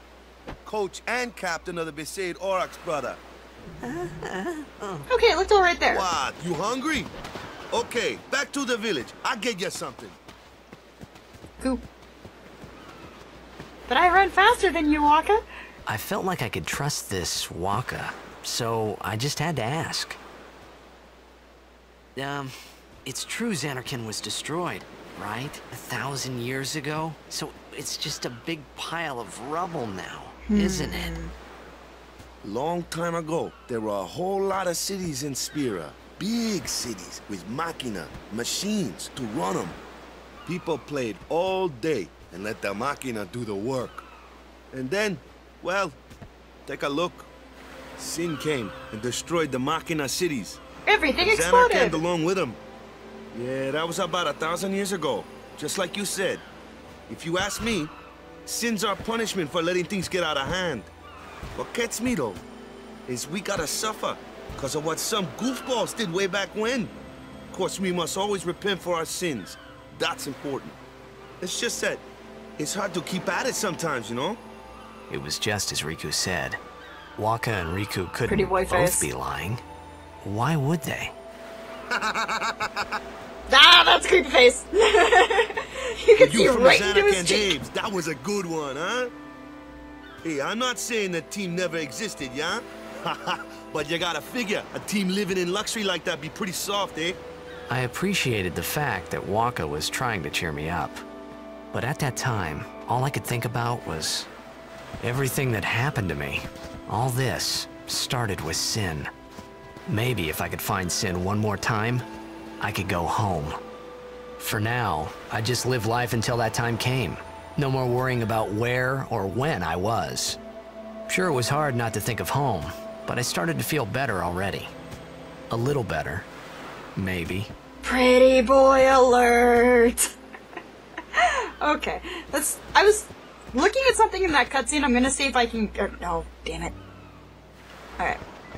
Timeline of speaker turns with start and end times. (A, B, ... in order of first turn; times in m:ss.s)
0:00.6-0:03.2 A
0:03.8-0:05.1 B
0:05.1-0:06.1 C
0:05.9-0:07.1 A
0:07.7-0:10.2 A
0:13.9-0:15.4 C
0:15.9-0:20.2 B
0:22.1-0:22.5 B
0:23.0-0:31.1 B
0:30.5-0:31.3 C
0:32.4-0:39.8 A
0:40.4-0:44.0 A
0:44.7-0:46.0 A
0:46.6-0:47.3 A
0:48.0-0:50.6 A
0:50.8-0:52.0 C
0:51.2-0:52.6 A
0:53.3-0:56.4 A
0:57.1-0:57.9 A
0:58.4-1:00.9 A
1:01.6-1:02.4 A
1:03.1-1:06.9 A
1:07.5-1:10.8 A
1:11.4-1:12.0 A
1:12.6-1:14.4 A
1:15.1-1:16.6 B
1:17.2-1:19.6 B
1:18.3-1:19.1 C
1:20.2-1:21.1 B
1:21.9-1:22.9 A
1:23.5-1:27.6 C
1:26.2-1:29.1 A
1:30.2-1:37.2 A
1:37.7-1:41.0 B
1:41.7-1:44.3 B
1:45.0-1:49.1 B
1:49.9-1:52.0 B
1:52.6-1:53.6 B
1:54.4-2:00.4 B
2:01.1-2:04.7 B
2:05.5-2:06.3 B
2:07.0-2:07.5 B
2:07.8-2:10.1 C
2:11.1-2:16.8 C